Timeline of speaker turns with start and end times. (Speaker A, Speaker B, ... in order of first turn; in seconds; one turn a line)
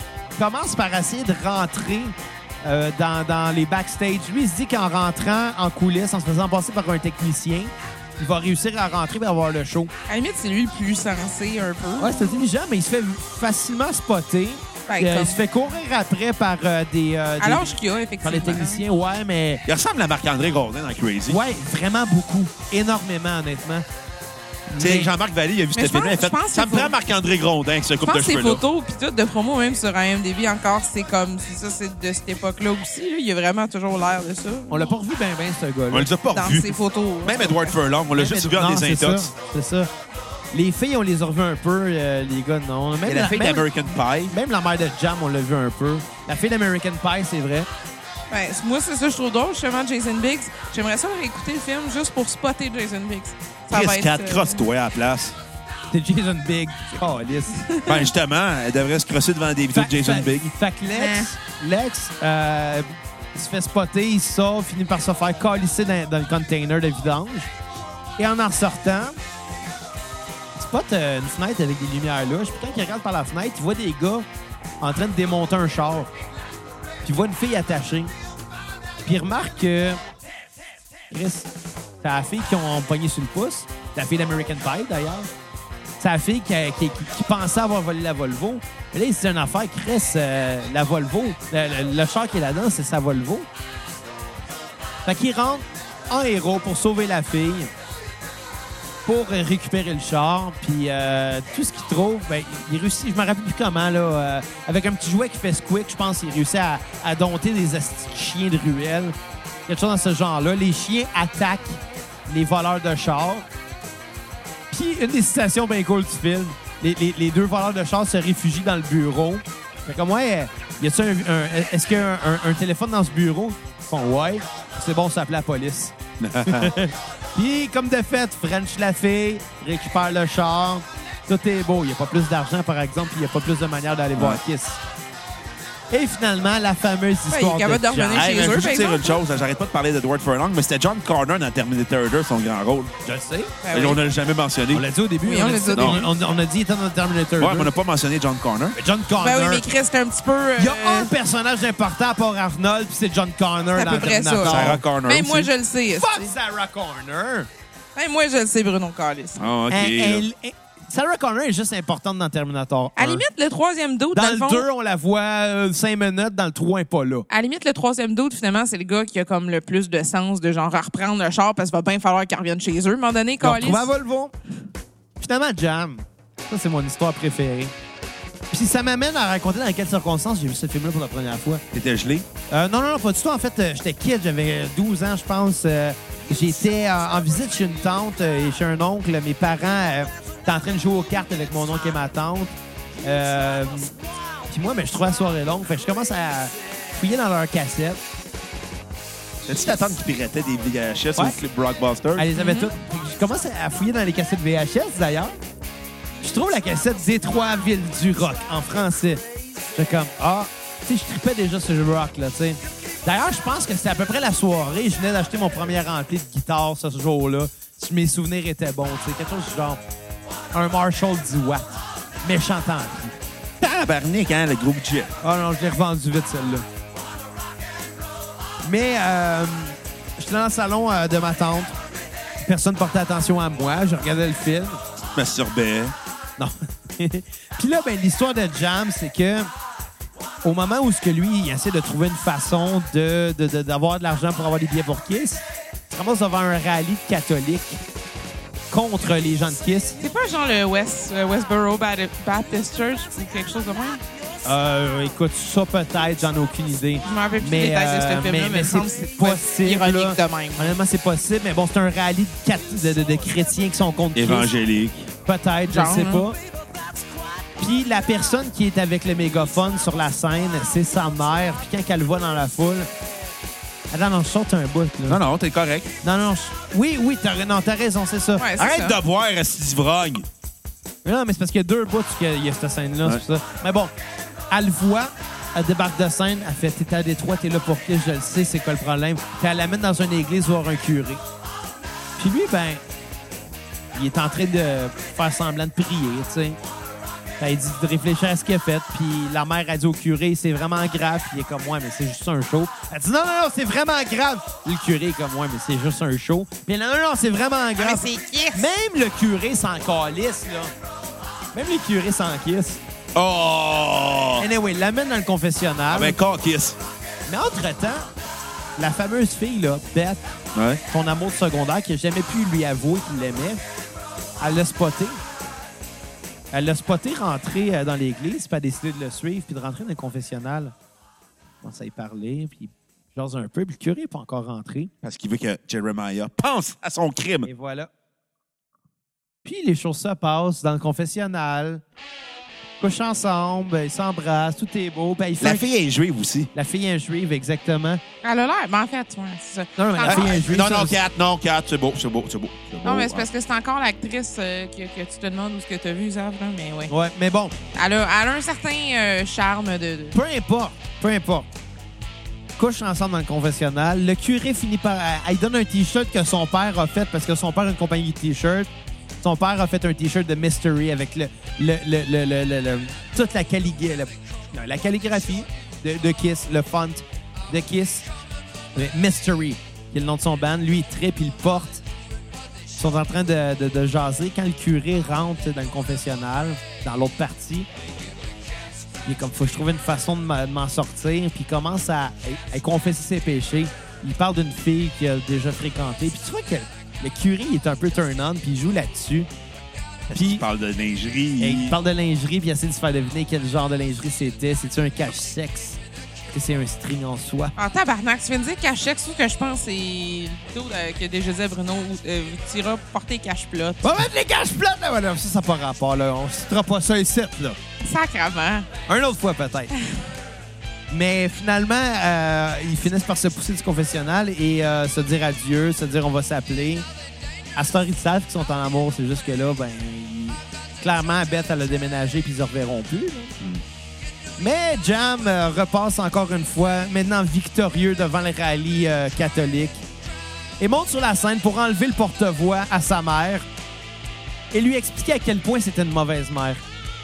Speaker A: 0.4-9.9
Speaker B: 10.1-12.4
Speaker A: 12.0-19.6
Speaker B: 14.9-15.4
Speaker B: 17.4-18.8
Speaker C: 19.6-21.4
Speaker A: 21.3-23.8
Speaker A: 24.7-25.1
Speaker C: 24.8-28.6
Speaker B: 25.8-26.9
Speaker B: 28.0-34.9
Speaker A: 34.7-36.1
Speaker C: 35.9-39.3
Speaker B: 36.3-37.8
Speaker A: 38.1-39.9
Speaker A: 40.5-43.6
Speaker C: 43.0-44.3
Speaker A: 44.3-47.7
Speaker B: 48.3-54.6
Speaker C: 53.7-55.4
Speaker A: 55.9-57.6
Speaker B: 57.5-58.1
Speaker C: 57.9-60.5
Speaker A: 59.7-67.5
Speaker B: 60.9-61.3
Speaker A: 68.2-69.2
Speaker A: 70.5-74.2
Speaker A: 74.8-76.1
Speaker A: 77.0-78.1
Speaker A: 79.0-80.0
Speaker A: 81.1-81.5
Speaker A: 82.0-85.3
Speaker A: 86.0-93.5
Speaker A: 95.0-97.7
Speaker A: 99.0-109.1
Speaker A: 109.7-113.5
Speaker A: 114.7-134.8
Speaker C: 126.2-126.7
Speaker C: 134.2-134.4
Speaker A: 135.9-138.6
Speaker B: 137.3-139.2
Speaker C: 138.1-142.9
Speaker A: 143.0-143.5
Speaker B: 143.6-144.0
Speaker C: 143.7-144.8
Speaker A: 144.7-147.7
Speaker B: 145.2-146.1
Speaker C: 145.7-146.0
Speaker C: 147.4-148.8
Speaker A: 148.7-149.7
Speaker B: 149.2-151.1
Speaker A: 150.6-154.8
Speaker B: 153.7-156.3
Speaker C: 154.4-155.5
Speaker A: 155.9-157.5
Speaker B: 157.9-159.4
Speaker C: 159.4-160.2
Speaker A: 159.7-163.2
Speaker B: 163.0-164.7
Speaker A: 164.1-167.3
Speaker B: 167.3-173.9
Speaker A: 173.4-174.3
Speaker A: 175.2-177.7
Speaker A: 178.5-181.6
Speaker C: 181.7-182.2
Speaker A: 182.5-193.9
Speaker A: 194.5-198.0
Speaker C: 199.4-202.3
Speaker A: 202.2-205.3
Speaker B: 202.3-202.7
Speaker A: 206.2-209.2
Speaker A: 209.7-219.8
Speaker A: 220.5-223.2
Speaker C: 223.6-225.1
Speaker A: 225.2-226.7
Speaker A: 228.6-231.8
Speaker A: 232.4-234.8
Speaker C: 235.1-235.9
Speaker A: 236.4-239.5
Speaker A: 240.4-247.8
Speaker A: 248.7-250.0
Speaker B: 250.0-254.0
Speaker A: 254.4-264.5
Speaker B: 257.0-260.7
Speaker C: 264.1-265.1
Speaker A: 265.2-266.4
Speaker B: 265.7-266.3
Speaker A: 267.6-272.9
Speaker A: 273.9-275.2
Speaker C: 275.1-275.9
Speaker A: 276.0-278.5
Speaker B: 278.4-279.0
Speaker C: 278.6-280.2
Speaker A: 281.0-283.9
Speaker A: 284.5-291.2
Speaker A: 292.2-292.8
Speaker A: 293.9-296.6
Speaker A: 297.4-310.7
Speaker B: 307.8-308.7
Speaker A: 311.5-312.8
Speaker C: 313.1-314.5
Speaker A: 314.4-316.2
Speaker C: 315.9-316.8
Speaker A: 317.3-318.1
Speaker A: 318.8-320.2
Speaker C: 320.5-320.8
Speaker A: 320.9-323.6
Speaker A: 324.4-325.2
Speaker A: 326.5-330.7
Speaker A: 331.6-334.9
Speaker C: 335.0-337.5
Speaker A: 337.4-337.9
Speaker A: 339.4-341.8
Speaker A: 342.8-345.7
Speaker C: 345.4-346.5
Speaker A: 346.5-348.0
Speaker B: 348.2-350.4
Speaker A: 349.8-351.0
Speaker C: 350.0-353.3
Speaker B: 352.8-356.9
Speaker A: 356.9-357.5
Speaker B: 357.7-360.2
Speaker A: 360.1-361.5
Speaker A: 362.6-368.7
Speaker A: 369.2-378.1
Speaker A: 378.7-381.8
Speaker A: 382.7-387.7
Speaker A: 389.0-399.3
Speaker A: 400.1-400.4
Speaker C: 400.1-401.8
Speaker A: 401.4-407.5
Speaker B: 407.6-413.9
Speaker A: 413.8-417.6
Speaker B: 417.8-418.7
Speaker A: 418.9-419.7
Speaker A: 420.9-426.9
Speaker A: 427.6-433.3
Speaker A: 434.4-439.8
Speaker A: 440.6-443.4
Speaker A: 444.5-446.6